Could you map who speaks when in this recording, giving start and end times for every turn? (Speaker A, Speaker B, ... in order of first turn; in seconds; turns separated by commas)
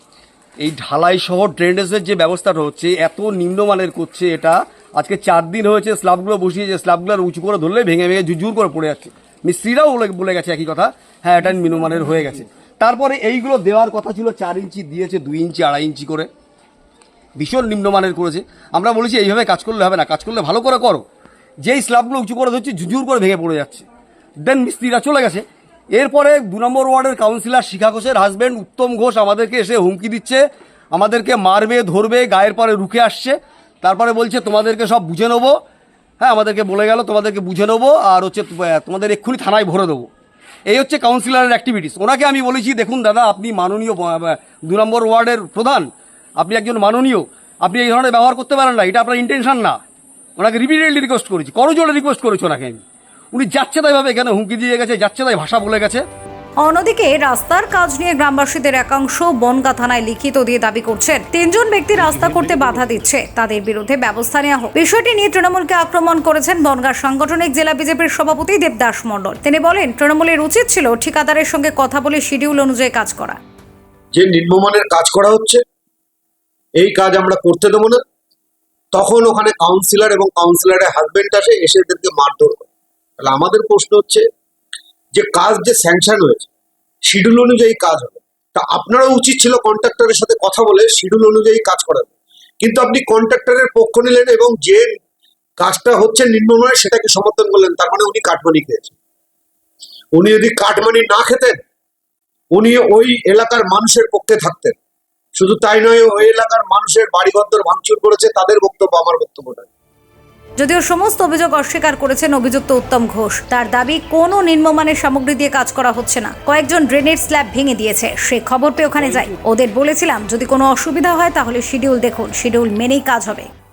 Speaker A: 0.6-16.3, Speaker A: 17.4-21.0, Speaker A: 21.6-23.9, Speaker A: 24.4-35.5, Speaker A: 36.2-40.1, Speaker A: 40.7-45.9, Speaker A: 46.4-49.8, Speaker A: 50.4-56.0, Speaker B: 56.6-73.4, Speaker A: 62.4-62.8, Speaker C: 74.1-75.6, Speaker C: 76.8-78.0, Speaker C: 78.9-82.7, Speaker C: 83.2-84.2, Speaker C: 85.1-86.5, Speaker C: 87.0-95.0, Speaker C: 95.6-99.0, Speaker C: 100.1-101.6, Speaker C: 102.5-104.8, Speaker C: 105.3-109.7, Speaker B: 110.6-123.5, Speaker A: 119.0-119.3